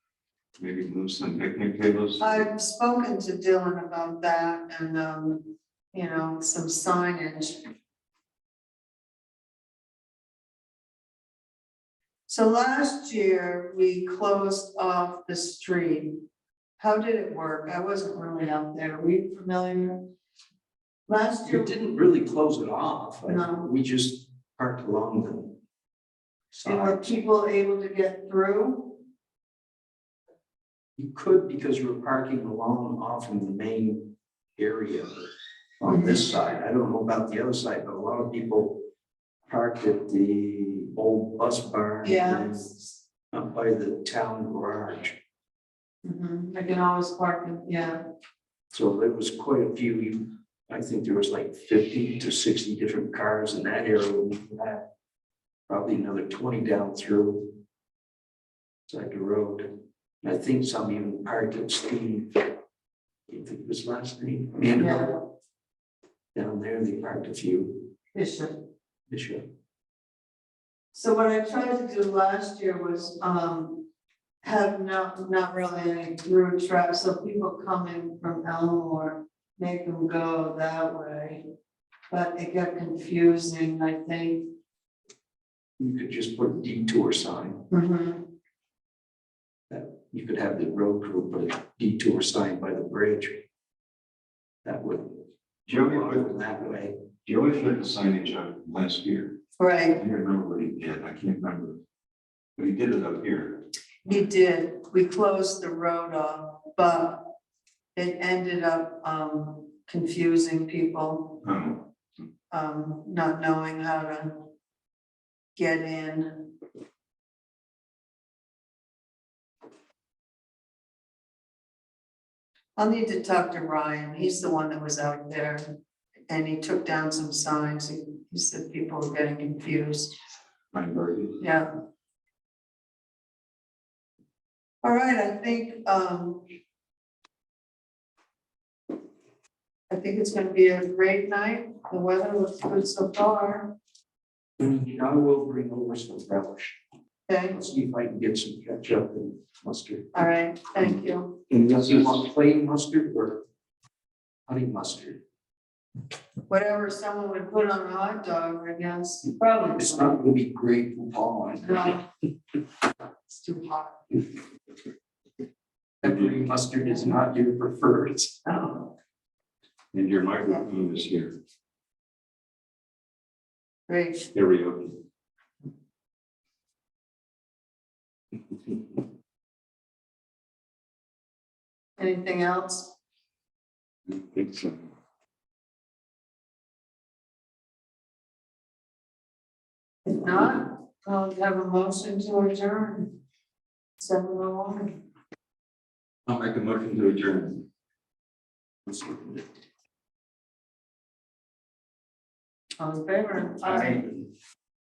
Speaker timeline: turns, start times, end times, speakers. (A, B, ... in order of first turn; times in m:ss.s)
0:00.6-0:02.4 A
0:02.2-0:07.6 B
0:12.3-0:16.2 B
0:16.8-0:20.1 B
0:21.1-0:21.7 B
0:21.4-0:25.6 C
0:23.2-0:23.7 B
0:26.5-0:27.1 C
0:26.6-0:29.0 B
0:31.0-0:35.2 C
0:35.8-0:38.8 C
0:35.8-0:36.3 B
0:39.5-0:42.7 C
0:42.0-0:42.8 B
0:43.3-0:45.2 C
0:46.0-0:48.0 B
0:48.7-0:54.8 C
0:55.7-0:57.6 C
0:58.9-1:02.5 C
1:03.3-1:05.2 C
1:04.8-1:05.1 B
1:06.3-1:07.9 C
1:08.1-1:08.6 B
1:09.1-1:09.5 C
1:10.9-1:13.8 B
1:14.4-1:21.4 B
1:22.1-1:24.5 B
1:25.8-1:27.6 C
1:27.7-1:28.2 B
1:29.7-1:33.4 C
1:34.6-1:37.0 C
1:35.7-1:36.4 A
1:37.2-1:39.4 A
1:39.6-1:40.0 B
1:40.0-1:41.8 A
1:42.6-1:43.6 A
1:44.0-1:47.3 B
1:48.0-1:51.4 B
1:51.4-1:51.8 A
1:52.5-1:54.5 B
1:55.6-1:56.5 B
2:02.8-2:05.7 B
2:06.3-2:10.1 B
2:10.7-2:11.4 A
2:11.4-2:11.7 B
2:14.8-2:16.4 B
2:19.9-2:23.7 B
2:24.6-2:26.8 C
2:27.3-2:27.6 B
2:27.5-2:30.1 C
2:30.1-2:31.4 B
2:31.5-2:33.4 C
2:34.5-2:35.2 C
2:36.5-2:40.0 B
2:39.8-2:41.9 C
2:41.6-2:42.0 B
2:43.3-2:44.0 B
2:46.0-2:48.6 C
2:49.9-2:51.4 A
2:53.9-2:54.3 B
2:54.3-2:55.0 A
3:02.0-3:02.9 B
3:04.1-3:04.9 A
3:10.0-3:13.2 B
3:14.0-3:15.0 B
3:16.2-3:17.6 A
3:22.8-3:24.0 B
3:23.6-3:24.1 C